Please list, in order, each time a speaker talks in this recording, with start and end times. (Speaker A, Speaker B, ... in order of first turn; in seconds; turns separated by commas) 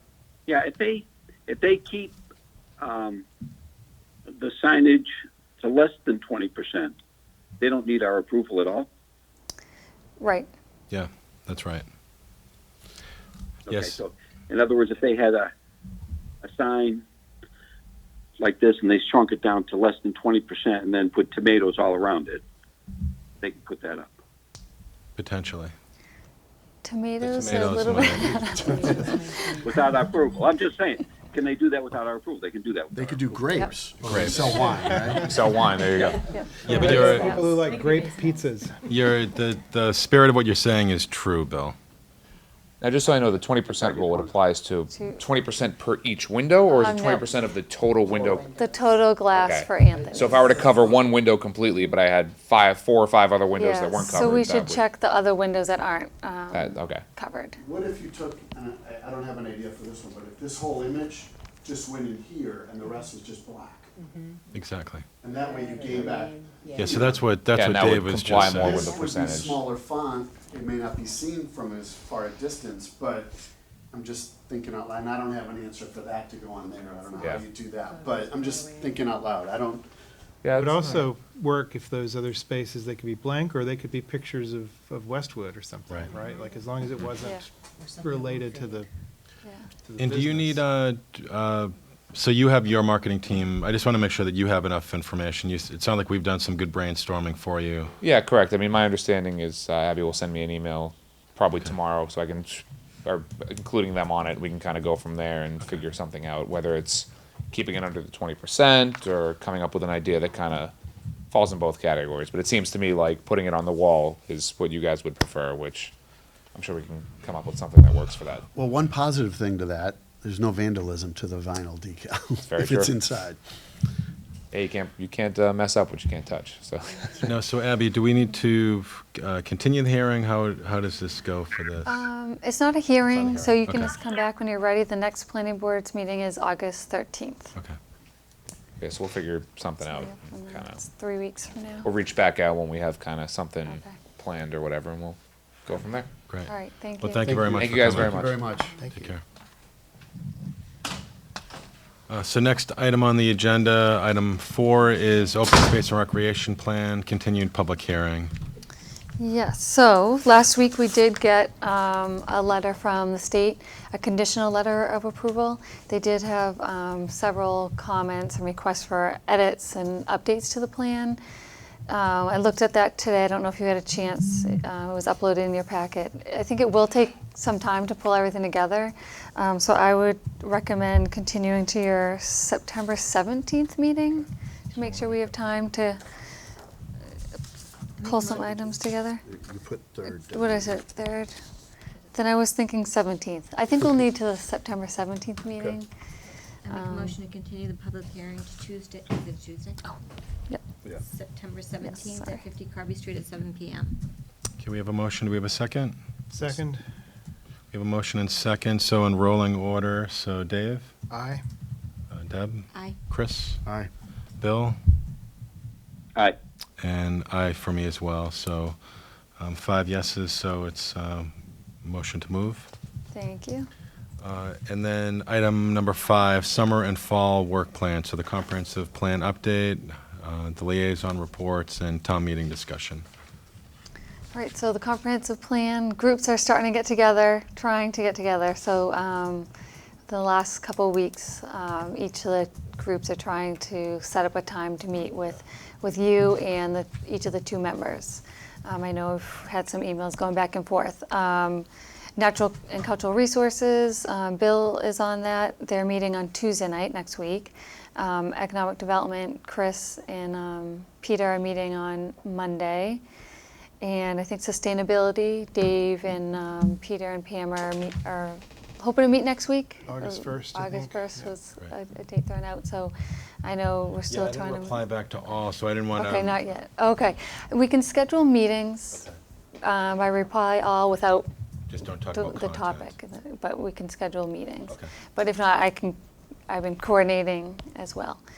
Speaker A: 0.5-2.1, Speaker A: 2.8-3.2, Speaker A: 4.4-6.9, Speaker A: 7.6-8.9, Speaker B: 10.2-10.5, Speaker C: 10.9-11.8, Speaker C: 13.7-14.0, Speaker A: 13.7-15.5, Speaker A: 16.4-17.0, Speaker A: 18.4-22.4, Speaker A: 23.4-24.1, Speaker C: 25.1-25.7, Speaker B: 26.8-29.6, Speaker C: 27.2-28.6, Speaker A: 29.6-33.5, Speaker D: 32.9-35.3, Speaker C: 34.0-34.7, Speaker E: 35.2-36.3, Speaker B: 36.3-37.5, Speaker F: 36.6-38.9, Speaker C: 36.6-37.4, Speaker G: 36.7-38.4, Speaker C: 38.9-41.8, Speaker E: 42.8-48.5, Speaker B: 44.9-45.2, Speaker B: 46.7-47.3, Speaker B: 48.5-50.6, Speaker E: 49.3-54.8, Speaker B: 53.6-57.6, Speaker E: 56.5-57.0, Speaker D: 57.6-63.9, Speaker C: 64.5-65.0, Speaker D: 65.2-67.2, Speaker C: 66.8-68.9, Speaker E: 67.5-69.6, Speaker D: 68.4-73.3, Speaker D: 73.9-79.8, Speaker G: 77.2-79.0, Speaker E: 77.2-77.5, Speaker E: 80.4-81.0, Speaker F: 80.5-88.9, Speaker G: 86.0-87.1, Speaker G: 87.8-88.9, Speaker F: 89.8-90.6, Speaker C: 90.0-97.9, Speaker E: 98.0-110.7, Speaker E: 111.3-115.9, Speaker E: 116.5-118.5, Speaker D: 118.5-123.4, Speaker E: 122.4-123.0, Speaker E: 124.5-127.2, Speaker C: 127.2-132.1, Speaker B: 131.8-137.5, Speaker C: 133.1-133.9, Speaker E: 138.8-140.8, Speaker B: 139.8-141.9, Speaker E: 141.8-146.1, Speaker B: 143.7-143.9, Speaker C: 146.3-148.3, Speaker B: 146.5-147.4, Speaker D: 147.3-148.8, Speaker E: 147.6-148.4, Speaker F: 148.8-149.1, Speaker C: 148.9-149.2, Speaker C: 152.1-158.3, Speaker B: 159.2-171.2, Speaker B: 171.9-186.0, Speaker C: 184.7-185.5, Speaker G: 188.0-188.7, Speaker B: 188.0-189.2, Speaker D: 189.2-190.8, Speaker B: 190.1-191.3, Speaker B: 192.1-195.9, Speaker G: 196.6-199.9, Speaker B: 196.7-197.2, Speaker G: 201.0-204.0, Speaker B: 201.8-202.4, Speaker C: 204.6-205.9, Speaker F: 206.3-206.8, Speaker C: 207.7-210.9, Speaker F: 211.1-211.4, Speaker C: 212.1-213.6, Speaker D: 213.6-213.9, Speaker C: 214.4-214.8, Speaker C: 216.8-218.8, Speaker C: 219.4-222.7, Speaker B: 223.1-223.7, Speaker C: 224.2-233.0, Speaker B: 234.3-239.5, Speaker B: 240.1-251.7, Speaker B: 252.2-263.0, Speaker B: 263.8-274.8, Speaker F: 269.9-271.3, Speaker C: 274.1-276.4, Speaker B: 275.9-279.0, Speaker B: 279.6-281.3, Speaker C: 281.7-282.9, Speaker B: 282.1-286.0, Speaker B: 286.5-288.2